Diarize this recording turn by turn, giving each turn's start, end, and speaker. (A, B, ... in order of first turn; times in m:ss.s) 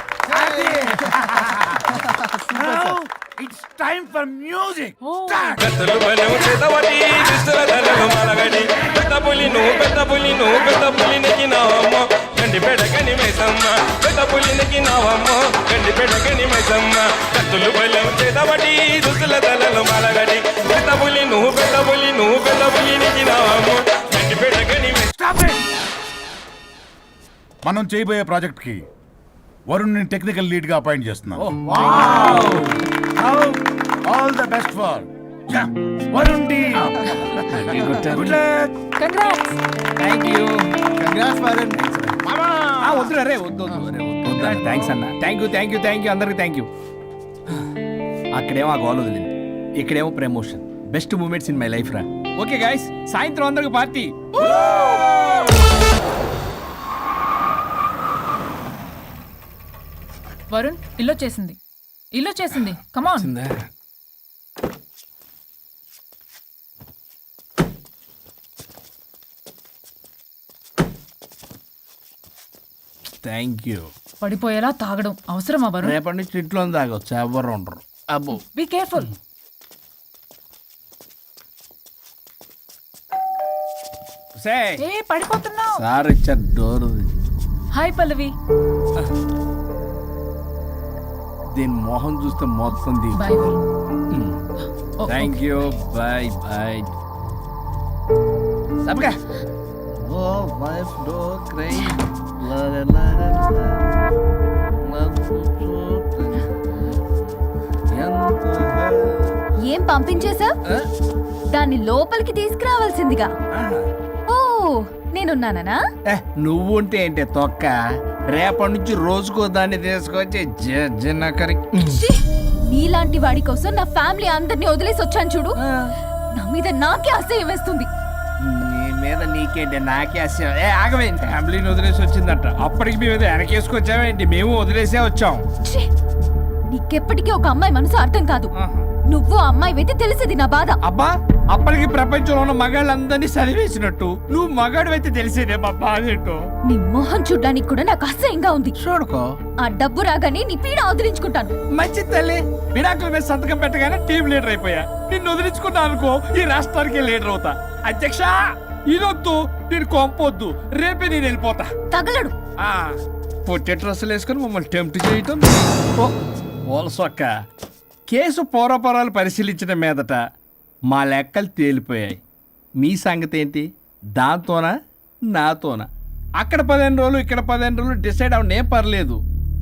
0:00.3-0:05.6 A
0:05.0-0:05.4 B
0:05.6-0:25.1 C
0:25.1-0:25.6 A
0:27.6-0:28.8 A
0:29.7-0:38.7 A
0:31.4-0:32.7 D
0:37.4-0:38.4 D
0:39.0-0:39.6 B
0:40.0-0:42.2 D
0:42.2-0:43.0 A
0:42.8-0:46.7 D
0:44.4-0:44.8 A
0:48.4-0:55.4 D
1:00.5-1:01.6 B
1:02.1-1:03.3 B
1:03.2-1:03.6 D
1:13.1-1:13.9 D
1:14.2-1:16.0 B
1:15.8-1:18.4 D
1:18.3-1:19.1 B
1:24.4-1:24.8 D
1:24.8-1:25.8 B
1:25.8-1:27.1 D
1:27.7-1:28.3 B
1:31.5-1:33.2 D
1:33.2-1:33.6 B
1:34.1-1:34.4 D
1:35.0-1:35.4 B
1:35.1-1:36.9 D
1:38.8-1:39.2 D
1:40.0-1:43.9 D
1:44.8-1:46.4 D
1:47.9-1:49.3 D
1:49.6-1:50.5 E
1:51.5-1:53.3 E
1:53.5-1:53.9 D
1:54.3-1:55.8 E
1:56.1-1:57.8 D
1:58.3-2:02.0 D
2:01.8-2:05.5 E
2:05.6-2:05.9 D
2:06.4-2:07.9 E
2:08.4-2:15.4 D
2:15.6-2:15.9 E
2:16.7-2:18.5 E
2:18.5-2:18.8 D
2:19.1-2:20.8 E
2:20.8-2:26.4 D
2:26.7-2:28.7 E
2:28.8-2:29.2 D
2:29.6-2:31.5 E
2:31.7-2:41.7 D
2:41.9-2:42.3 E
2:42.6-2:46.1 D
2:46.7-2:47.3 D
2:48.1-2:50.2 D
2:50.9-2:52.2 D
2:52.8-2:54.7 D
2:55.3-2:55.9 D
2:56.4-2:59.2 D